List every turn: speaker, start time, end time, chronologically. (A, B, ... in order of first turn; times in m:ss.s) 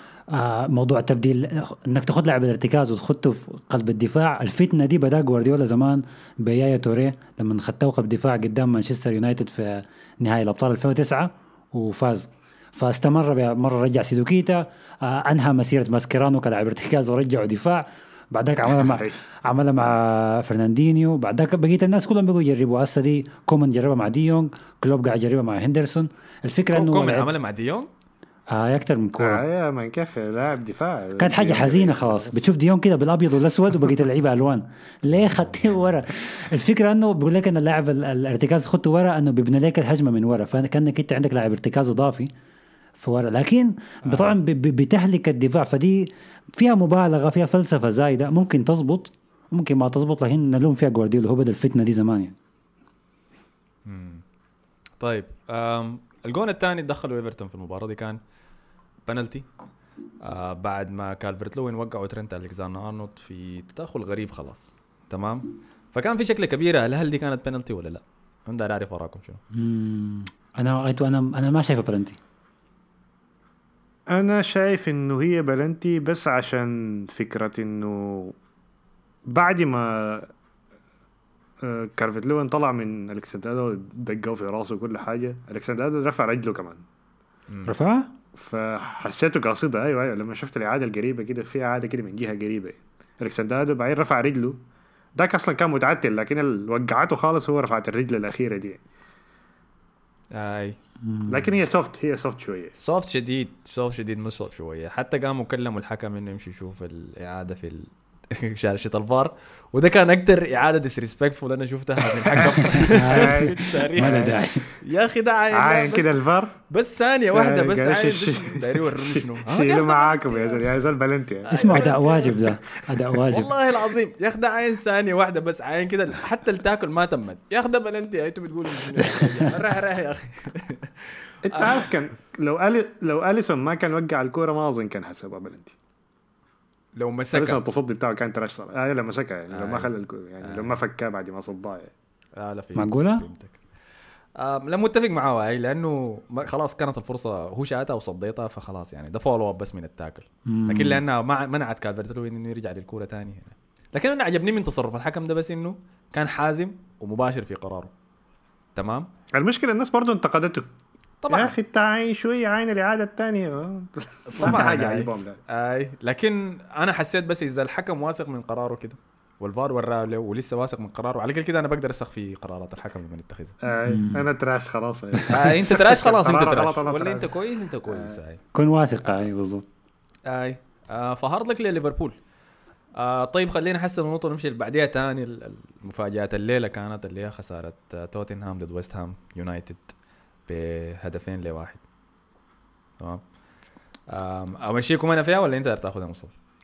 0:00.3-0:27.3 A
0:18.6-0:19.2 B
0:26.7-0:27.9 C
0:28.5-0:29.4 A
0:29.2-0:32.4 B
0:31.2-0:42.3 A
0:43.0-0:52.4 A
0:44.1-0:44.3 C
0:53.8-0:54.2 C
0:55.0-0:58.2 C
0:59.0-0:59.5 C
1:00.2-1:09.4 C
1:09.5-1:12.2 A
1:14.1-1:18.3 B
1:19.3-1:20.3 B
1:21.6-1:26.8 B
1:27.5-1:27.7 C
1:27.6-1:28.1 A
1:28.3-1:34.6 B
1:35.2-1:38.8 B
1:40.3-1:40.8 C
1:41.0-1:41.5 A
1:41.3-1:42.7 B
1:42.8-1:56.1 C
1:52.7-1:54.4 B
1:52.9-1:54.6 A
1:55.5-1:56.5 B
1:56.7-2:00.7 C
1:57.3-2:03.0 B
2:01.5-2:03.5 A
2:01.7-2:02.3 C
2:03.2-2:11.9 C
2:09.0-2:09.5 A
2:11.4-2:15.7 B
2:17.0-2:17.6 C
2:17.3-2:21.9 B
2:19.5-2:20.8 C
2:22.4-2:23.6 C
2:22.8-2:23.2 A
2:24.4-2:37.9 C
2:30.4-2:31.0 A
2:38.8-2:39.1 C
2:39.3-2:40.6 B
2:41.2-2:41.5 C
2:41.3-2:45.4 B
2:44.3-2:53.6 C
2:53.6-2:57.3 B
2:53.9-2:54.2 A
2:55.3-2:58.4 C
2:57.9-2:58.2 B
2:58.5-2:59.7 A
3:00.3-3:02.2 C
3:03.0-3:09.9 C
3:10.5-3:11.8 C
3:14.1-3:16.3 C